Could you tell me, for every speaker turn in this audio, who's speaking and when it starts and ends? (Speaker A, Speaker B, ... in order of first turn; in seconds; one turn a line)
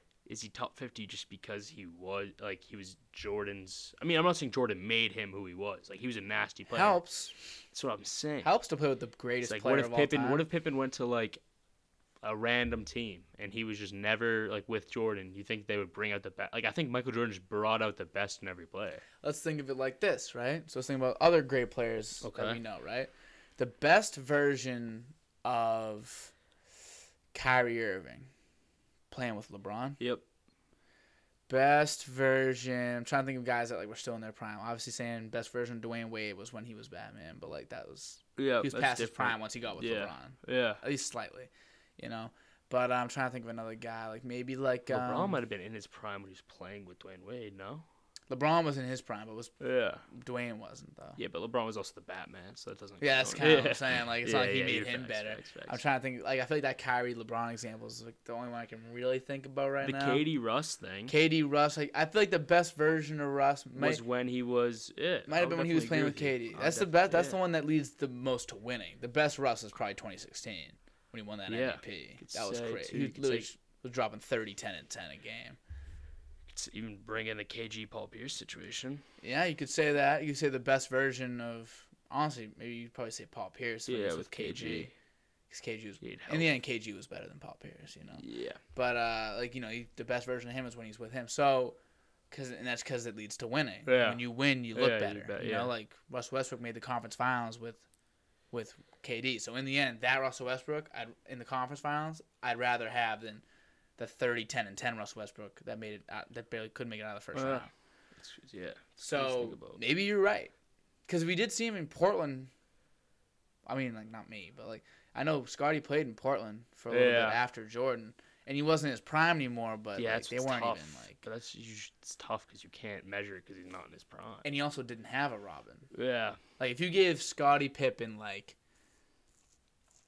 Speaker A: 0.2-7.0
Speaker B: 6.7-7.4
Speaker A: 7.7-8.5
Speaker B: 8.4-10.4
Speaker A: 9.4-11.4
Speaker A: 12.2-19.0
Speaker B: 19.2-26.3
Speaker A: 22.2-22.6
Speaker B: 27.3-28.3
Speaker B: 29.1-30.0
Speaker B: 31.5-45.4
Speaker A: 38.4-40.8
Speaker A: 44.9-47.9
Speaker B: 48.3-49.5
Speaker A: 49.6-50.0
Speaker B: 50.1-51.2
Speaker A: 51.2-55.8
Speaker B: 53.0-60.2
Speaker A: 59.8-61.1
Speaker B: 61.1-64.0
Speaker A: 63.7-67.4
Speaker B: 65.3-75.6
Speaker A: 71.5-73.5
Speaker A: 76.5-79.0
Speaker B: 79.2-84.9
Speaker A: 83.9-84.9
Speaker B: 85.5-91.8
Speaker A: 86.0-86.5
Speaker A: 88.2-88.6
Speaker B: 92.3-97.8
Speaker A: 93.8-95.7
Speaker B: 98.5-103.4
Speaker B: 104.0-107.7
Speaker A: 107.3-109.8
Speaker B: 109.0-110.5
Speaker B: 111.1-112.5
Speaker B: 113.7-121.2
Speaker A: 116.9-117.4
Speaker A: 120.0-124.5
Speaker B: 124.4-125.9
Speaker A: 125.9-126.4
Speaker B: 126.6-128.6